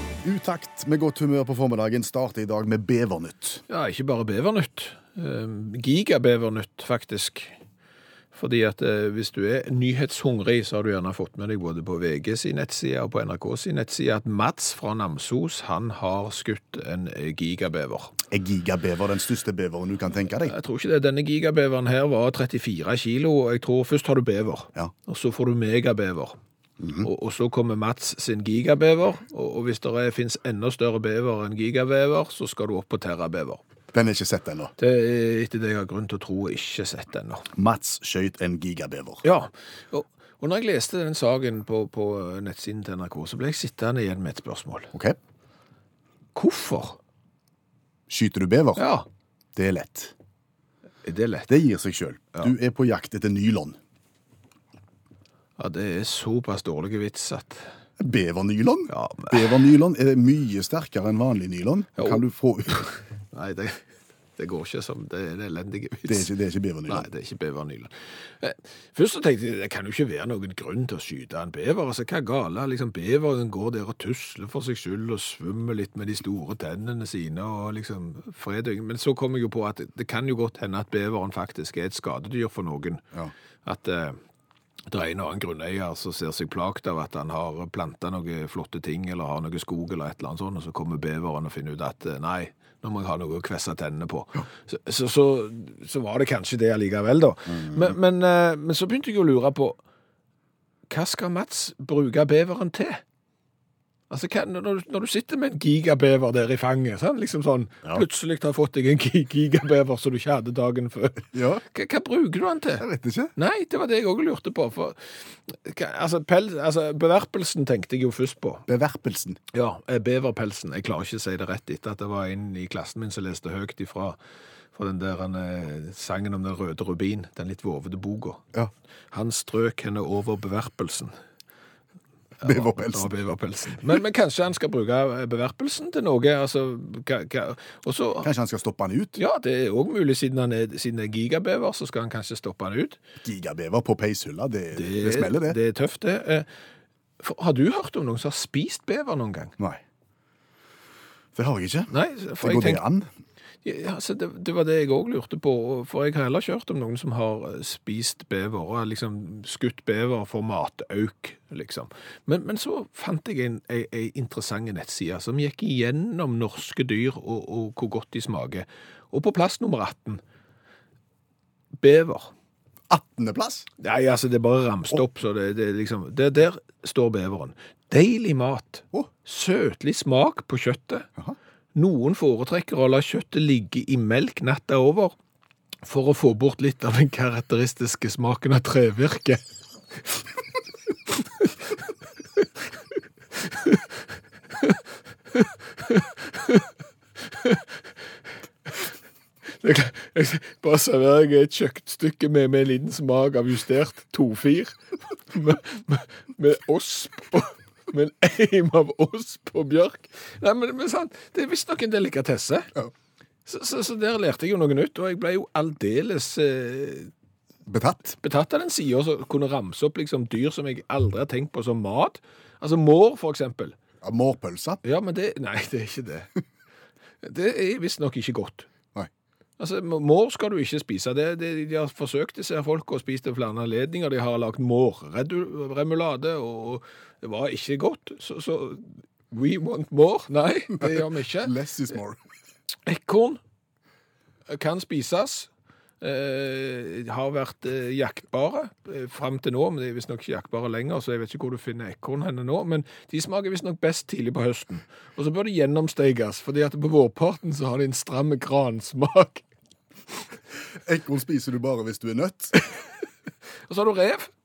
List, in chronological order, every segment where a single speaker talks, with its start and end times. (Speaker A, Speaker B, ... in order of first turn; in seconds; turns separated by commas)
Speaker A: 0.2-3.6, Speaker B: 3.7-7.5, Speaker B: 8.3-18.1, Speaker A: 18.3-20.5, Speaker B: 20.4-26.4, Speaker A: 26.8-27.1, Speaker B: 27.0-33.6, Speaker A: 33.9-34.7, Speaker B: 34.8-37.5, Speaker A: 37.5-39.2, Speaker B: 39.2-44.9, Speaker B: 46.3-47.0, Speaker A: 48.1-48.8, Speaker B: 48.8-49.1, Speaker A: 49.5-50.1, Speaker B: 51.0-51.5, Speaker A: 51.5-53.8, Speaker B: 55.6-57.7, Speaker A: 58.0-62.9, Speaker B: 58.9-59.5, Speaker B: 63.3-63.9, Speaker B: 64.4-66.3, Speaker A: 66.1-67.1, Speaker B: 66.9-83.0, Speaker B: 83.6-84.2, Speaker B: 84.9-99.8, Speaker A: 97.5-97.9, Speaker B: 100.9-103.0, Speaker B: 104.1-112.8, Speaker A: 111.3-111.6, Speaker A: 112.8-113.3, Speaker B: 113.3-118.7, Speaker A: 118.7-119.4, Speaker B: 119.5-124.2, Speaker B: 124.7-128.4, Speaker B: 129.1-131.1, Speaker B: 132.4-138.3, Speaker A: 132.4-133.1, Speaker A: 138.2-139.2, Speaker B: 139.2-143.0, Speaker A: 143.2-145.6, Speaker B: 144.7-146.5, Speaker B: 147.2-149.5, Speaker A: 151.3-153.1, Speaker B: 151.9-152.8, Speaker B: 153.6-170.2, Speaker B: 171.8-172.3, Speaker A: 172.9-173.7, Speaker B: 173.8-181.1, Speaker B: 181.7-185.1, Speaker B: 185.8-189.4, Speaker B: 193.4-193.8, Speaker B: 195.3-196.7, Speaker B: 197.3-197.6, Speaker B: 199.6-212.7, Speaker B: 213.4-217.1, Speaker A: 217.7-218.2, Speaker B: 218.2-223.8, Speaker A: 224.0-224.8, Speaker B: 224.8-226.3, Speaker B: 227.2-228.7, Speaker B: 229.6-241.5, Speaker A: 240.8-242.2, Speaker B: 242.8-243.4, Speaker B: 244.5-245.5, Speaker B: 246.0-259.4, Speaker A: 260.8-262.6, Speaker B: 263.7-264.3